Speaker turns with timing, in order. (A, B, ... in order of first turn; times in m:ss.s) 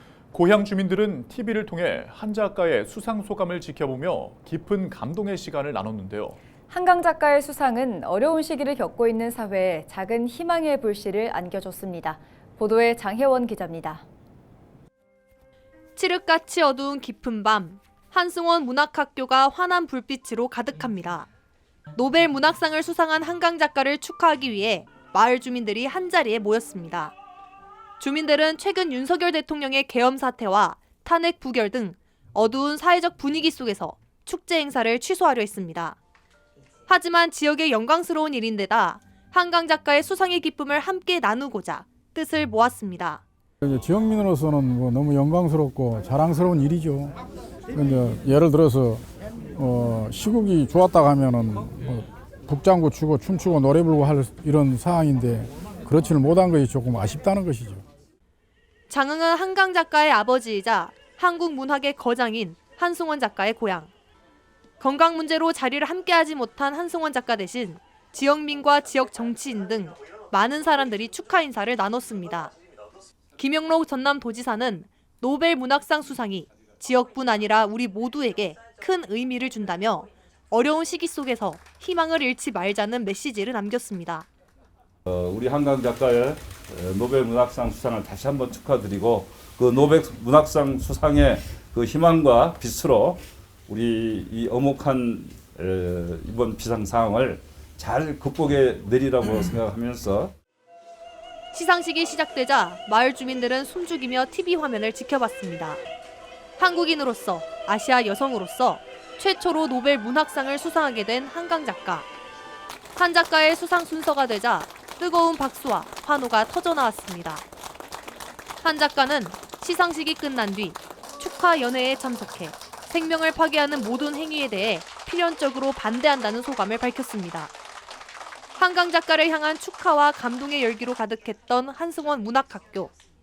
0:00.3-0:06.4 A
0:06.7-0:14.0 B
0:16.0-0:21.3 C
0:21.9-0:27.1 C
0:28.0-0:36.0 C
0:36.9-0:43.2 C
0:43.6-0:47.2 D
0:47.7-0:49.0 D
0:49.6-0:57.8 D
0:58.9-1:03.9 C
1:04.8-1:12.5 C
1:13.4-1:24.3 C
1:25.0-1:40.3 E
1:41.5-1:45.8 C
1:46.6-1:52.1 C
1:53.0-1:57.4 C
1:58.6-2:07.5 C
2:08.6-2:12.9 C